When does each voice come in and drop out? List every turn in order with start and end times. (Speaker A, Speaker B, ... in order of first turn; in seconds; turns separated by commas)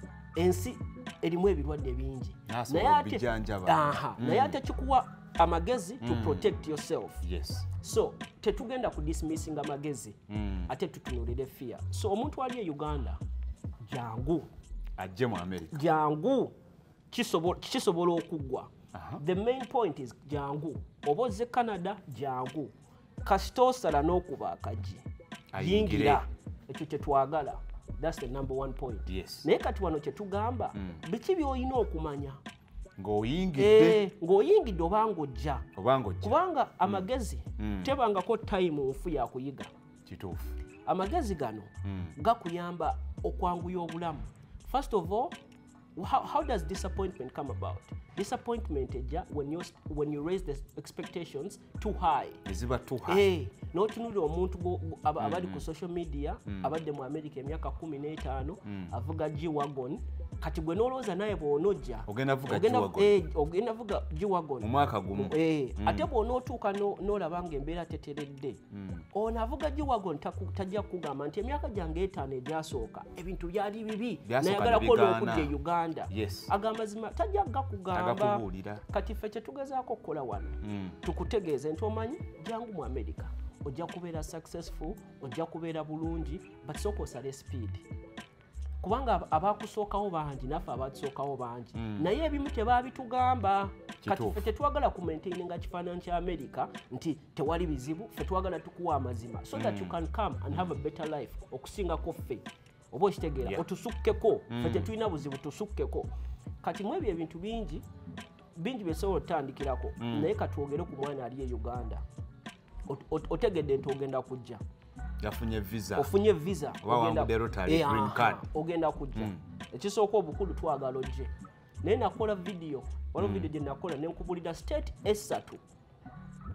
Speaker A: 0.3-7.2, Speaker B: 2.5-4.6, Speaker B: 6.0-6.5, Speaker B: 7.2-7.7, Speaker A: 7.8-10.2, Speaker B: 10.3-10.7, Speaker A: 10.7-13.2, Speaker A: 13.8-14.5, Speaker B: 15.0-15.9, Speaker A: 15.7-16.6, Speaker A: 17.1-32.4, Speaker B: 18.9-19.2, Speaker B: 25.5-26.2, Speaker B: 29.1-29.5, Speaker B: 30.8-31.0, Speaker B: 33.0-34.0, Speaker A: 33.6-35.7, Speaker B: 35.8-37.0, Speaker A: 36.2-39.7, Speaker B: 37.6-37.9, Speaker B: 40.1-40.5, Speaker A: 40.9-45.4, Speaker B: 41.8-42.2, Speaker A: 46.0-52.4, Speaker B: 52.5-53.2, Speaker A: 53.1-68.6, Speaker B: 55.2-55.6, Speaker B: 58.7-58.9, Speaker B: 62.1-63.2, Speaker B: 64.6-66.1, Speaker B: 68.7-69.1, Speaker A: 69.1-87.8, Speaker B: 74.2-75.5, Speaker B: 76.1-76.5, Speaker B: 77.9-78.8, Speaker B: 80.6-81.0, Speaker A: 88.8-107.8, Speaker B: 91.7-92.1, Speaker B: 94.0-94.5, Speaker B: 99.5-100.0, Speaker B: 104.5-104.9, Speaker A: 108.5-112.0, Speaker B: 110.0-110.3, Speaker A: 112.9-114.6, Speaker B: 115.2-116.1, Speaker A: 116.0-125.6, Speaker B: 116.8-118.4, Speaker B: 119.2-119.4, Speaker B: 123.2-123.5